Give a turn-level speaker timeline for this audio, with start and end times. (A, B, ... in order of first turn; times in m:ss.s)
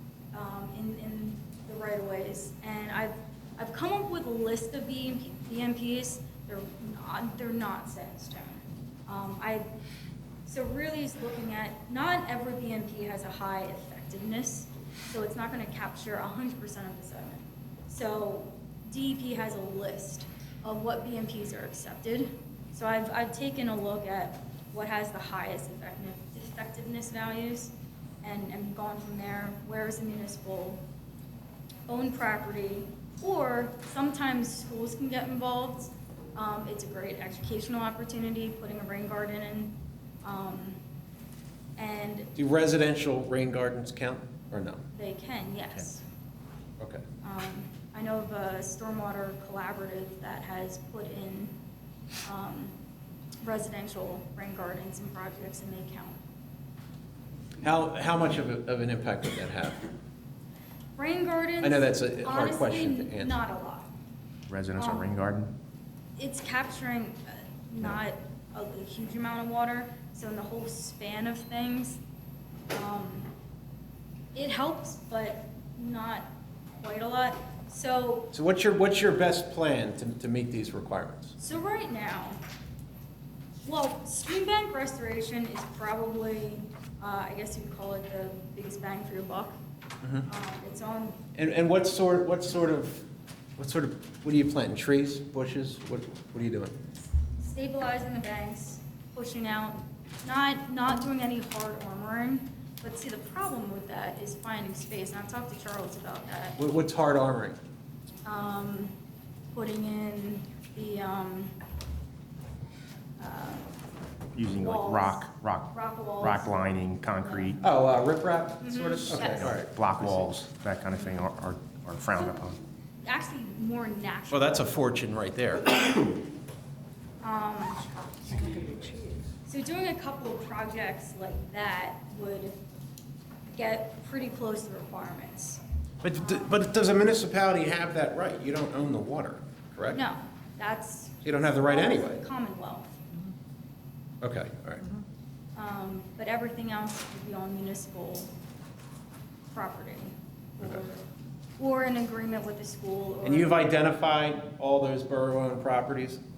0:00.3-0:09.7 A
0:10.5-0:30.8 A
0:31.9-0:40.8 A
0:41.8-0:42.3 A
0:42.4-0:44.8 B
0:44.9-0:46.0 A
0:47.2-0:51.5 A
0:52.2-0:52.8 A
0:53.4-0:56.2 A
0:57.6-0:59.9 B
1:01.0-1:03.9 A
1:01.6-1:03.4 B
1:04.5-1:05.5 C
1:04.8-1:05.1 A
1:06.2-1:12.0 A
1:12.7-1:13.3 A
1:14.4-1:16.3 A
1:16.8-1:18.3 A
1:18.3-1:21.4 B
1:21.4-1:22.4 A
1:23.6-1:29.6 A
1:30.2-1:31.2 A
1:31.4-1:33.0 B
1:33.6-1:36.8 B
1:37.4-1:46.6 A
1:46.6-1:47.6 B
1:48.3-1:48.9 A
1:49.5-1:51.5 A
1:53.2-1:53.7 A
1:54.4-1:57.6 C
1:54.5-1:57.6 A
1:57.6-2:00.3 B
1:58.6-1:59.5 A
1:59.0-2:02.6 C
2:03.0-2:04.7 A
2:04.3-2:06.2 B
2:07.2-2:08.7 A
2:08.4-2:08.9 B
2:09.5-2:12.6 A
2:13.5-2:15.6 A
2:16.0-2:20.0 B
2:16.2-2:16.6 A
2:19.9-2:22.9 A
2:21.2-2:22.3 B
2:24.2-2:24.9 B
2:25.6-2:28.3 A
2:29.5-2:31.0 A
2:31.6-2:33.6 A
2:33.2-2:36.2 B